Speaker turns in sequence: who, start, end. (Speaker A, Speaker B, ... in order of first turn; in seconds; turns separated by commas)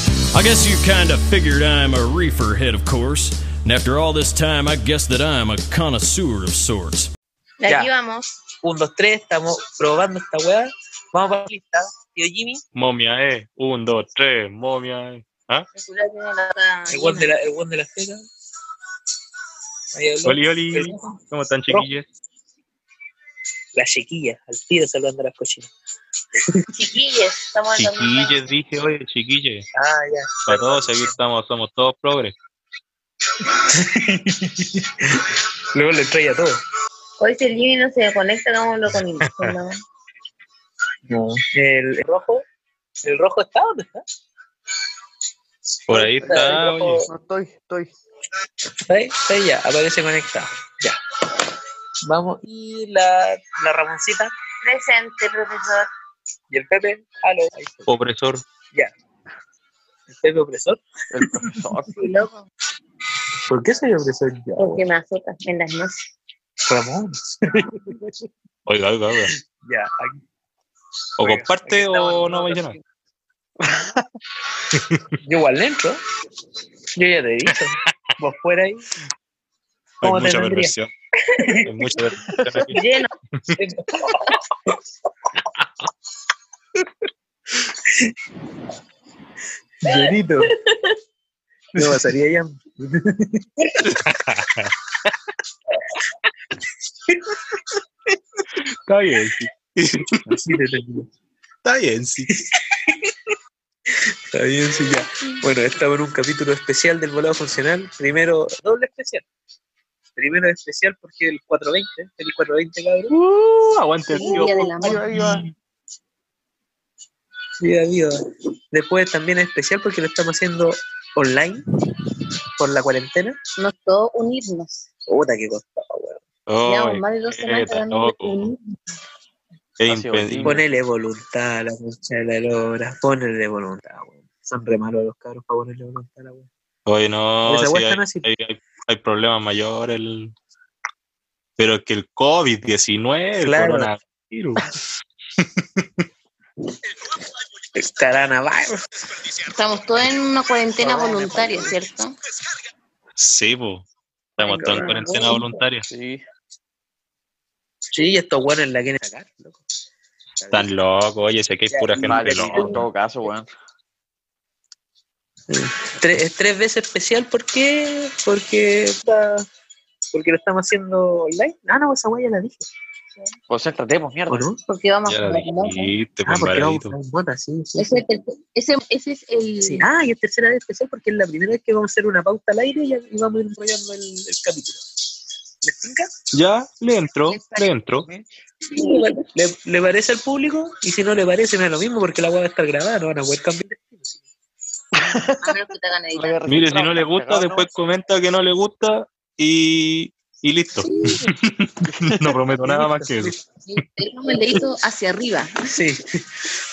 Speaker A: 0.3-7.1, Speaker B: 7.6-8.4, Speaker C: 8.6-12.6, Speaker D: 12.7-15.7, Speaker B: 15.7-17.3, Speaker C: 16.9-18.2, Speaker C: 19.9-21.2, Speaker D: 20.2-22.1, Speaker C: 23.7-25.7, Speaker B: 26.7-28.4, Speaker D: 27.8-29.6, Speaker C: 29.8-31.1, Speaker D: 30.5-32.3, Speaker C: 33.4-36.6, Speaker B: 37.2-39.8, Speaker D: 38.9-39.5, Speaker C: 41.1-42.4, Speaker C: 43.0-44.0, Speaker D: 45.9-47.0, Speaker C: 45.9-47.1, Speaker E: 47.1-47.9, Speaker C: 48.8-51.0, Speaker C: 52.0-54.3, Speaker B: 54.6-55.9, Speaker C: 56.5-57.9, Speaker D: 57.9-58.4, Speaker C: 60.1-60.8, Speaker E: 61.1-62.0, Speaker B: 61.9-62.3, Speaker C: 63.5-64.8, Speaker B: 64.5-66.1, Speaker C: 66.6-68.1, Speaker D: 68.7-69.3, Speaker C: 69.6-70.2, Speaker D: 71.2-72.7, Speaker C: 71.2-72.8, Speaker E: 73.6-74.0, Speaker C: 75.2-76.0, Speaker C: 76.9-78.8, Speaker D: 80.0-80.9, Speaker C: 80.0-80.7, Speaker D: 81.6-82.8, Speaker B: 82.7-83.1, Speaker C: 83.6-84.7, Speaker C: 87.6-88.0, Speaker C: 89.8-90.5, Speaker C: 91.7-93.8, Speaker D: 93.8-94.7, Speaker C: 97.1-97.3, Speaker D: 98.9-100.2, Speaker C: 100.3-101.1, Speaker D: 101.6-102.3, Speaker C: 102.7-103.1, Speaker C: 103.9-109.2, Speaker C: 110.2-113.1, Speaker D: 113.1-115.5, Speaker B: 114.1-115.0, Speaker E: 114.2-115.4, Speaker C: 117.6-118.2, Speaker C: 118.7-121.6, Speaker C: 122.6-123.4, Speaker B: 123.6-124.8, Speaker C: 125.0-126.2, Speaker D: 126.5-128.5, Speaker B: 126.6-128.8, Speaker D: 129.8-130.6, Speaker E: 129.8-130.6, Speaker C: 130.4-136.5, Speaker D: 136.8-140.3, Speaker C: 137.4-138.3, Speaker D: 141.6-144.6, Speaker C: 143.4-143.9, Speaker C: 147.7-148.8, Speaker B: 149.5-152.1, Speaker E: 150.8-151.7, Speaker D: 153.2-153.8, Speaker D: 154.4-155.8, Speaker B: 154.4-155.6, Speaker E: 155.9-156.2, Speaker C: 157.9-159.6, Speaker D: 160.5-162.8, Speaker C: 161.7-162.8, Speaker E: 162.0-163.5, Speaker C: 165.5-169.5, Speaker C: 170.1-172.7, Speaker E: 173.5-174.5, Speaker C: 174.3-174.6, Speaker B: 174.6-175.9, Speaker D: 175.1-176.9, Speaker C: 176.2-178.0, Speaker B: 177.8-179.8, Speaker C: 179.6-184.8, Speaker C: 185.6-186.1, Speaker D: 186.3-188.1, Speaker B: 187.3-187.7, Speaker E: 188.0-188.3, Speaker B: 188.7-189.1, Speaker C: 188.7-194.2, Speaker E: 194.9-195.6, Speaker B: 195.4-196.4, Speaker E: 196.1-197.7, Speaker D: 196.5-203.3, Speaker B: 200.8-201.2, Speaker C: 202.6-203.3, Speaker B: 203.6-205.5, Speaker C: 205.7-206.4